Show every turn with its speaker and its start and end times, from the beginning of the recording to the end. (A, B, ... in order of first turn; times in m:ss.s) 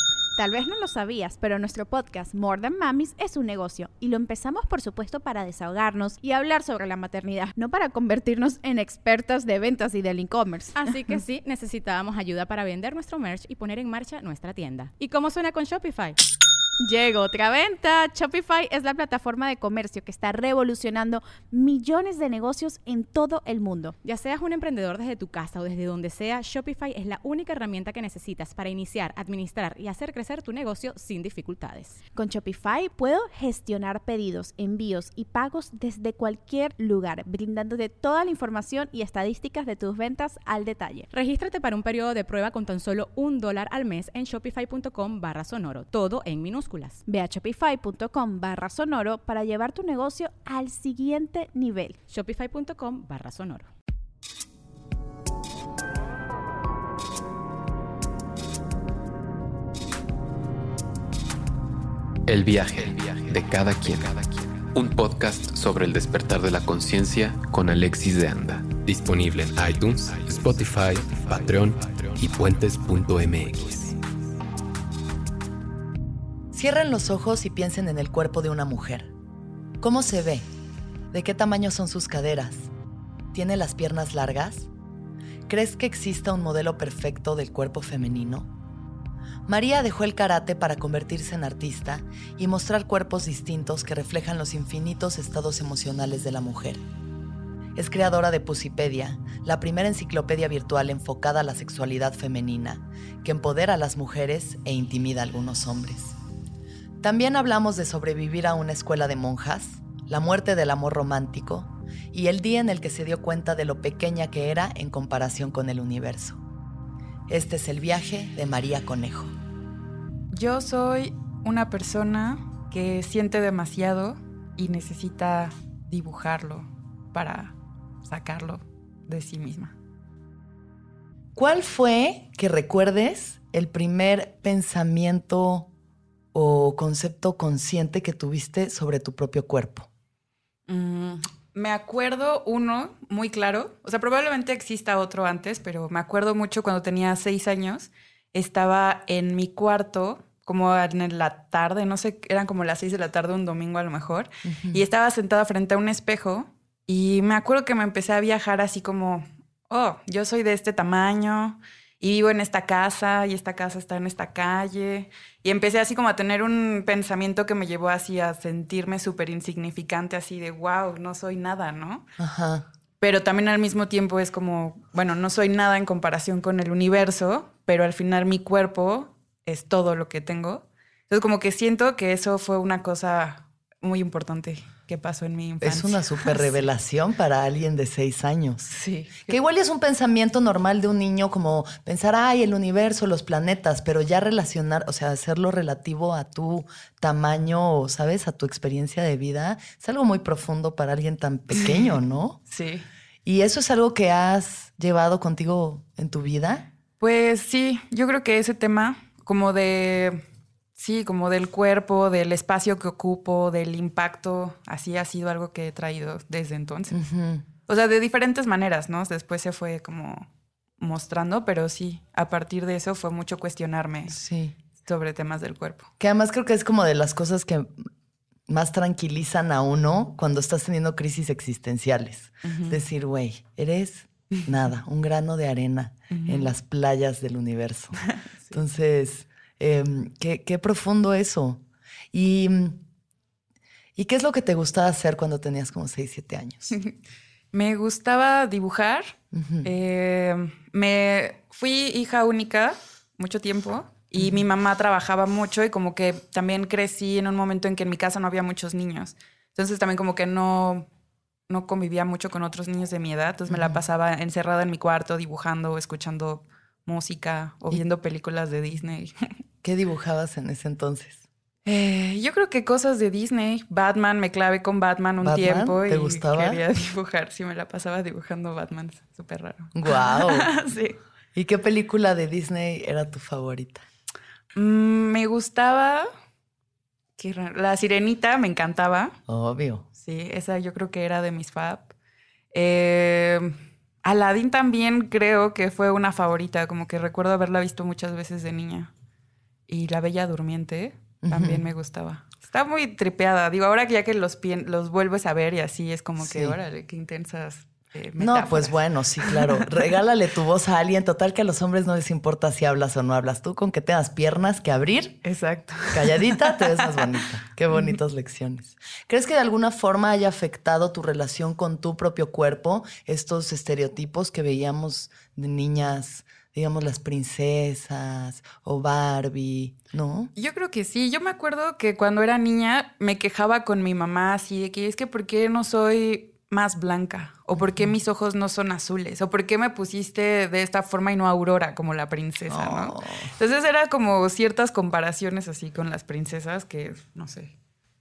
0:00.4-0:10.8 A
0:10.7-0:16.2 B
0:16.8-0:24.0 A
0:24.0-0:32.0 B
0:32.2-0:41.1 A
0:41.1-0:47.0 B
0:47.1-0:52.0 A
0:52.1-0:53.7 B
1:02.3-1:14.0 C
1:16.5-1:19.1 D
1:19.8-1:20.5 D
1:21.1-1:22.7 D
1:23.3-1:24.7 D
1:25.5-1:28.5 D
1:29.4-1:36.8 D
1:37.8-1:46.2 D
1:47.0-1:56.4 D
1:57.3-1:59.4 D
2:00.3-2:09.8 E
2:11.3-2:15.7 D
2:16.3-2:19.9 D
2:20.7-2:52.1 E
2:34.4-2:34.8 D
2:52.2-2:52.7 D
2:53.0-3:06.6 E
3:05.6-3:08.7 D
3:08.7-3:09.4 E
3:09.2-3:22.4 D
3:21.5-3:21.9 E
3:22.5-3:22.8 E
3:23.2-3:26.7 D
3:27.0-3:30.2 E
3:30.8-3:37.0 E
3:36.9-3:37.4 D
3:37.7-3:44.2 E
3:44.1-3:44.6 D
3:44.8-3:45.9 E
3:46.0-3:47.8 D
3:48.5-4:02.8 D
3:52.4-3:52.8 E
3:56.1-3:56.5 E
3:58.1-3:58.6 E
4:03.9-4:06.8 D
4:07.5-4:20.9 E
4:09.3-4:09.7 D
4:14.2-4:14.4 D
4:21.5-4:29.3 E
4:23.5-4:23.8 D
4:29.6-4:31.2 D
4:31.7-4:41.0 E
4:35.2-4:36.6 D
4:39.7-4:40.5 D
4:41.4-4:43.8 D
4:44.6-4:46.1 E
4:47.2-4:49.2 E
4:49.3-4:49.8 D
4:50.0-4:51.9 E
4:52.5-4:58.9 E
4:59.7-5:09.7 E
5:01.2-5:01.6 D
5:06.2-5:06.6 D
5:08.2-5:15.2 D
5:15.2-5:17.2 E
5:15.9-5:30.3 D
5:17.7-5:18.0 E
5:30.4-5:47.6 E
5:37.6-5:37.9 D
5:42.4-5:43.3 D